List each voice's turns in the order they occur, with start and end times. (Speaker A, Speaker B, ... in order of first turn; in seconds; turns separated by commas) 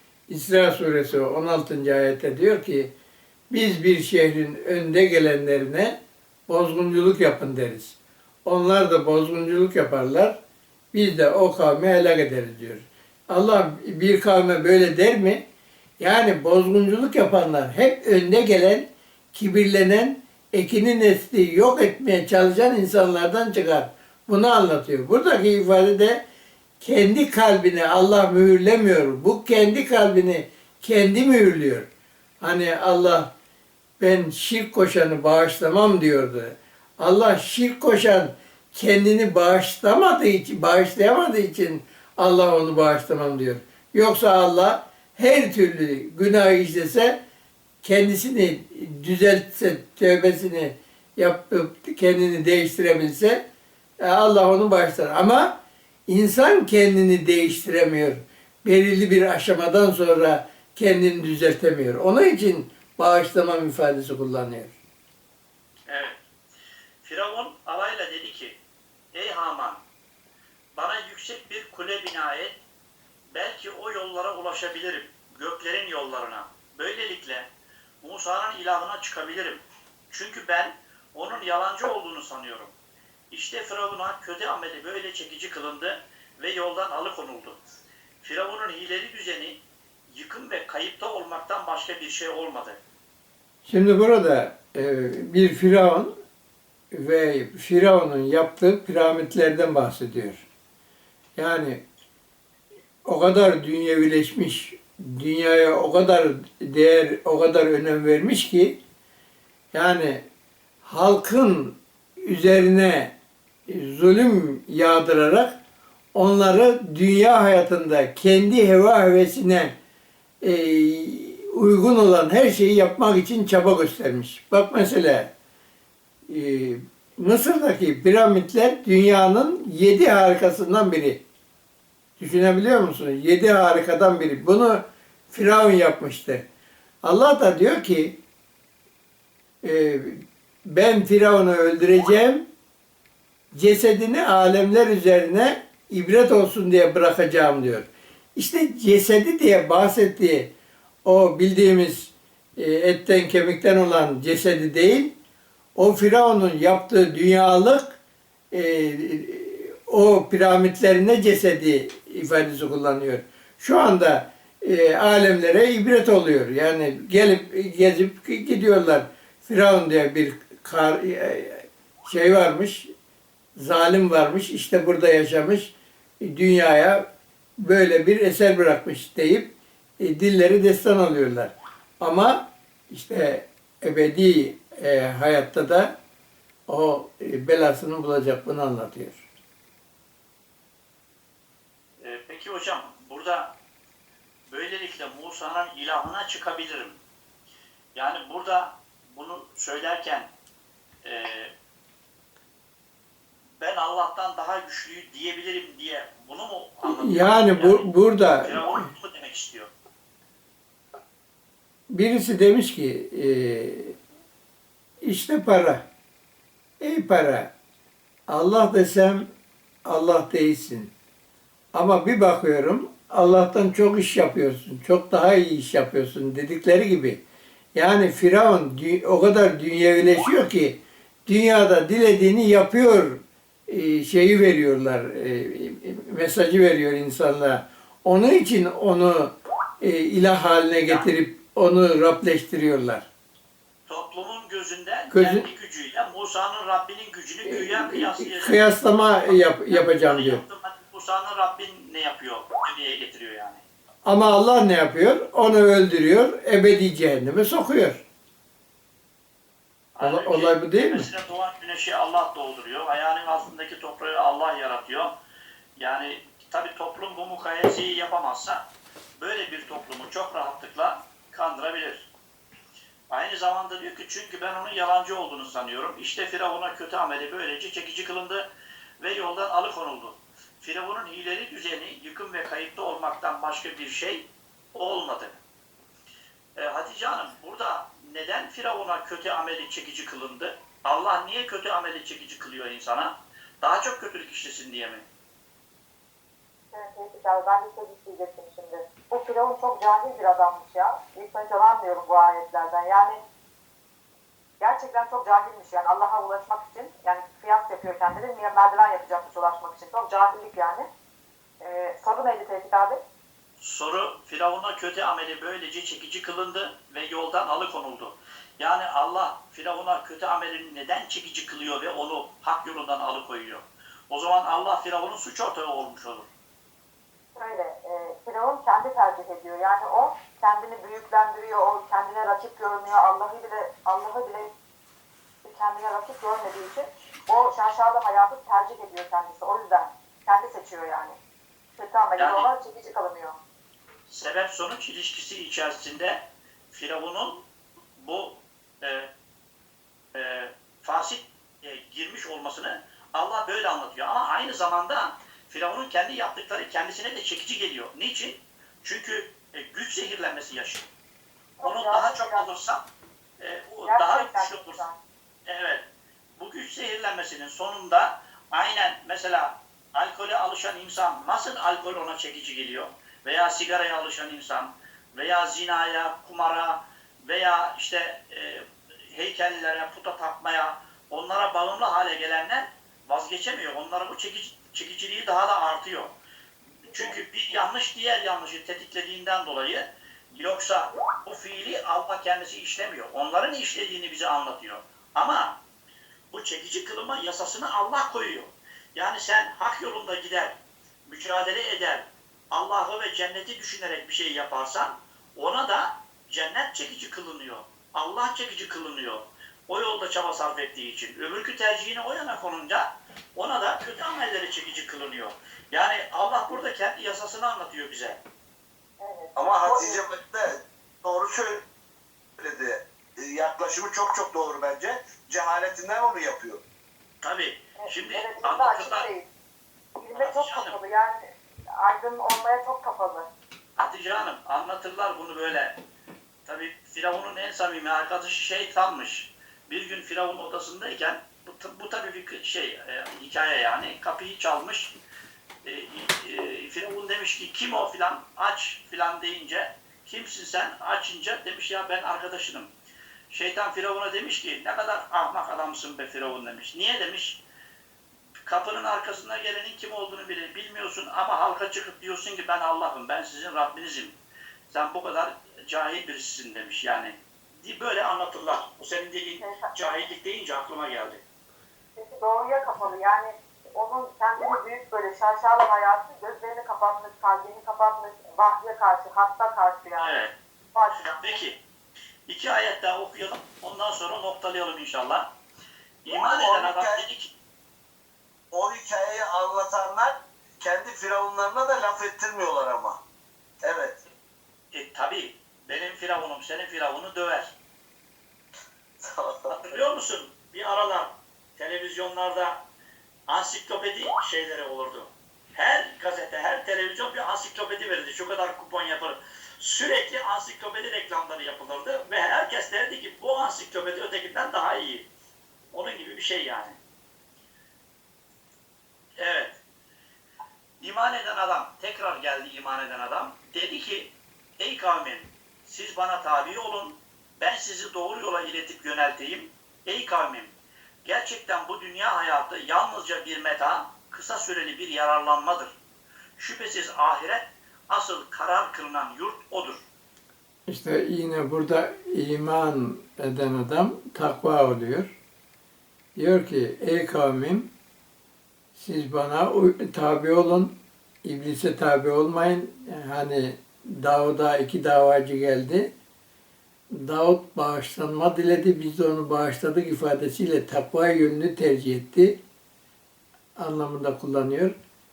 Speaker A: 0.3-2.9, Speaker A: 3.5-6.0, Speaker A: 6.5-10.4, Speaker A: 10.9-15.4, Speaker A: 16.0-26.2, Speaker A: 26.8-31.9, Speaker A: 32.4-33.3, Speaker A: 34.0-47.2, Speaker A: 47.8-53.4, Speaker A: 54.0-64.8, Speaker B: 65.9-66.2, Speaker B: 67.0-68.6, Speaker B: 69.1-69.8, Speaker B: 70.8-72.6, Speaker B: 73.3-77.5, Speaker B: 78.0-82.7, Speaker B: 83.3-87.6, Speaker B: 88.2-92.8, Speaker A: 93.7-96.2, Speaker A: 96.9-100.5, Speaker A: 101.4-101.8, Speaker A: 103.0-108.8, Speaker A: 109.7-110.2, Speaker A: 110.8-113.1, Speaker A: 113.7-115.6, Speaker A: 116.1-119.8, Speaker A: 120.4-125.3, Speaker A: 126.3-131.2, Speaker A: 132.2-136.5, Speaker A: 137.0-138.2, Speaker A: 139.6-142.5, Speaker A: 143.5-150.5, Speaker A: 151.1-155.2, Speaker A: 155.8-158.0, Speaker A: 158.5-172.9, Speaker A: 173.6-177.1, Speaker A: 177.6-185.9, Speaker A: 186.7-189.2, Speaker B: 192.0-193.6, Speaker B: 194.5-197.0, Speaker B: 197.9-200.3, Speaker B: 201.0-201.5, Speaker B: 203.6-209.7, Speaker A: 206.8-208.8, Speaker A: 211.9-214.0, Speaker A: 215.0-215.8, Speaker A: 216.8-217.5, Speaker A: 218.3-219.3, Speaker A: 219.9-220.9, Speaker A: 221.7-227.2, Speaker A: 227.8-243.1, Speaker B: 243.9-248.7, Speaker A: 245.1-245.5, Speaker A: 247.4-250.4, Speaker B: 249.2-253.6, Speaker A: 254.1-258.1, Speaker B: 259.9-265.1, Speaker A: 260.0-261.1, Speaker B: 265.8-268.7, Speaker B: 269.2-272.1, Speaker B: 273.1-285.4, Speaker B: 286.6-295.1, Speaker C: 296.7-303.2, Speaker C: 304.6-310.9, Speaker C: 311.6-313.0, Speaker B: 313.6-326.3, Speaker C: 327.4-334.5, Speaker C: 335.4-341.2, Speaker C: 341.8-343.4, Speaker B: 342.2-342.5, Speaker B: 344.1-347.5, Speaker B: 348.0-349.1, Speaker B: 350.1-360.9, Speaker C: 361.6-362.5, Speaker B: 361.6-362.8, Speaker B: 363.4-364.8, Speaker C: 363.9-365.0, Speaker B: 365.5-365.9, Speaker B: 366.4-386.1, Speaker B: 386.9-395.6, Speaker B: 396.3-418.2, Speaker C: 419.0-420.1, Speaker D: 419.4-421.6, Speaker D: 422.4-426.6, Speaker B: 427.2-429.1, Speaker C: 427.8-429.3, Speaker C: 430.0-431.2, Speaker B: 430.1-430.8, Speaker C: 431.8-433.3, Speaker B: 433.8-435.8, Speaker B: 436.5-445.0, Speaker B: 445.6-452.7, Speaker B: 453.3-457.4, Speaker B: 458.4-464.2, Speaker B: 464.7-471.2, Speaker C: 469.4-469.7, Speaker C: 472.0-480.2, Speaker B: 480.0-480.3, Speaker C: 480.7-481.4, Speaker B: 481.0-481.6, Speaker B: 482.3-485.3, Speaker B: 486.0-487.3, Speaker D: 486.1-487.0, Speaker D: 488.5-493.0, Speaker D: 493.6-494.0, Speaker B: 494.7-497.6, Speaker D: 499.0-499.8, Speaker B: 499.5-502.6, Speaker B: 503.3-515.1, Speaker B: 515.7-516.8, Speaker B: 519.2-519.6, Speaker B: 520.8-530.5, Speaker B: 531.0-535.8, Speaker B: 536.4-539.9, Speaker A: 540.7-545.1, Speaker A: 546.2-547.7, Speaker A: 548.8-555.9, Speaker A: 556.9-562.4, Speaker A: 563.6-564.8